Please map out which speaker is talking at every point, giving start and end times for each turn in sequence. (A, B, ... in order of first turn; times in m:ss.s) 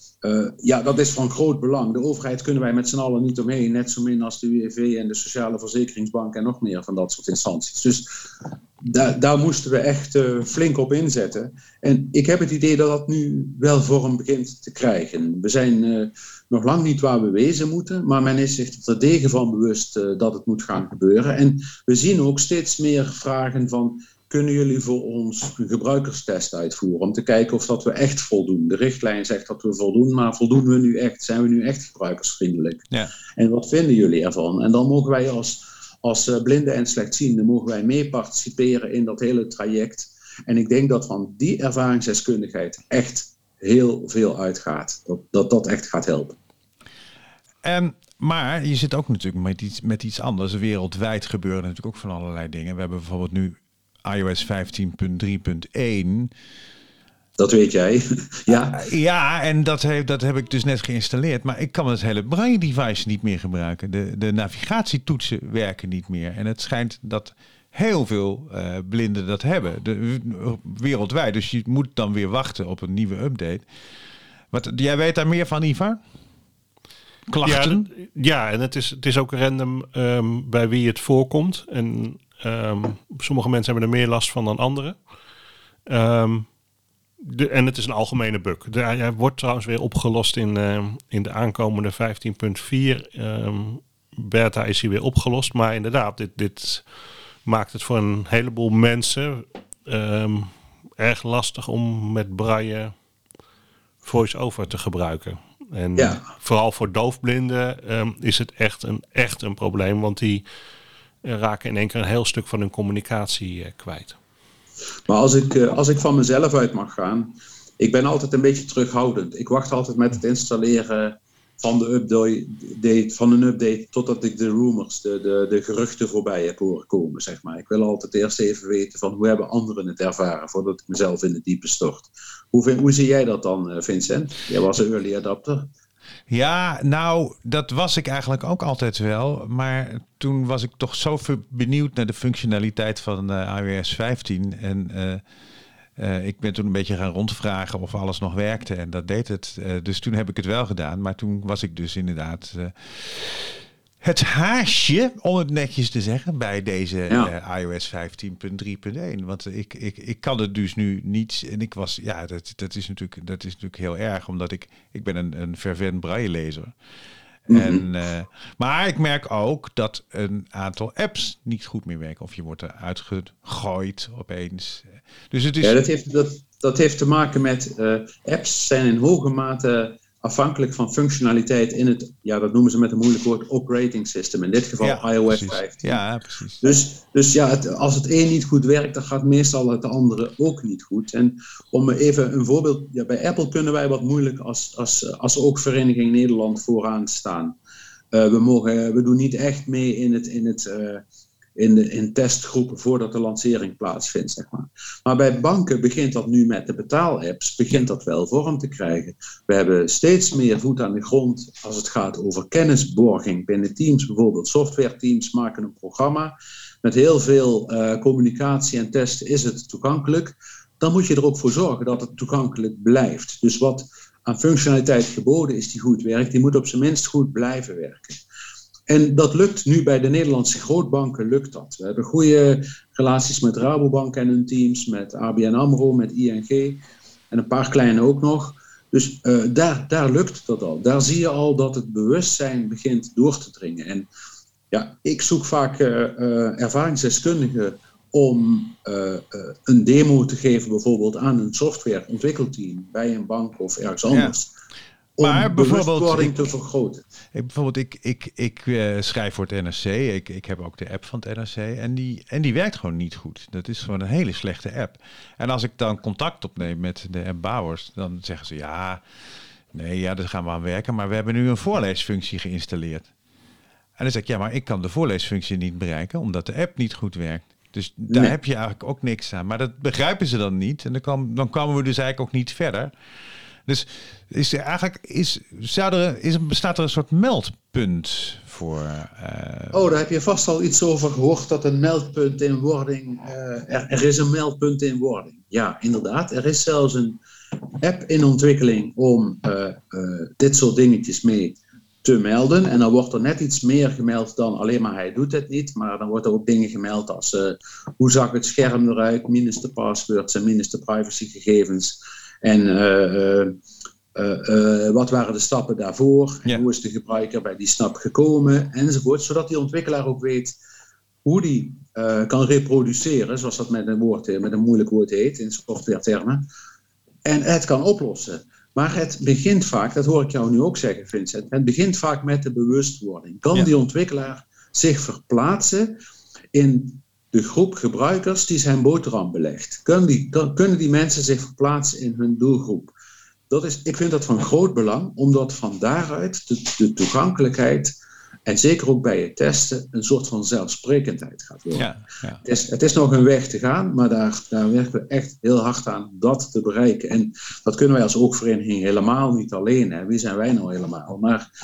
0:00.2-0:46.4 A
0:47.6-0:56.3 B
0:57.4-0:58.8 A
0:58.7-1:13.7 B
1:14.5-1:16.0 B
1:17.3-1:17.9 B
1:17.4-1:25.0 C
1:25.9-1:26.5 C
1:27.2-1:36.9 C
1:37.4-1:42.9 C
1:44.0-1:50.4 C
1:46.0-1:46.2 A
1:51.2-1:54.2 C
1:55.1-2:15.7 A
2:16.3-2:25.2 B
2:26.0-2:46.7 B
2:47.5-2:47.9 A
2:47.5-2:55.8 B
2:55.6-3:06.0 A
3:04.8-3:06.7 B
3:06.6-3:17.6 A
3:18.1-3:21.0 A
3:21.6-3:48.2 A
3:48.9-4:04.1 A
4:04.7-4:14.5 A
4:14.1-4:14.4 B
4:15.2-4:17.0 A
4:15.2-4:16.3 B
4:17.3-4:29.0 B
4:29.7-4:33.1 B
4:34.0-4:42.9 B
4:38.1-4:38.4 A
4:43.6-4:49.8 B
4:49.7-4:57.2 A
4:57.8-5:13.6 A
5:14.1-5:20.6 A
5:21.2-5:26.5 A
5:27.2-5:36.0 A
5:36.5-5:42.9 A
5:43.5-5:47.9 A
5:48.4-5:51.9 A
5:51.7-5:52.4 B
5:52.4-6:01.4 A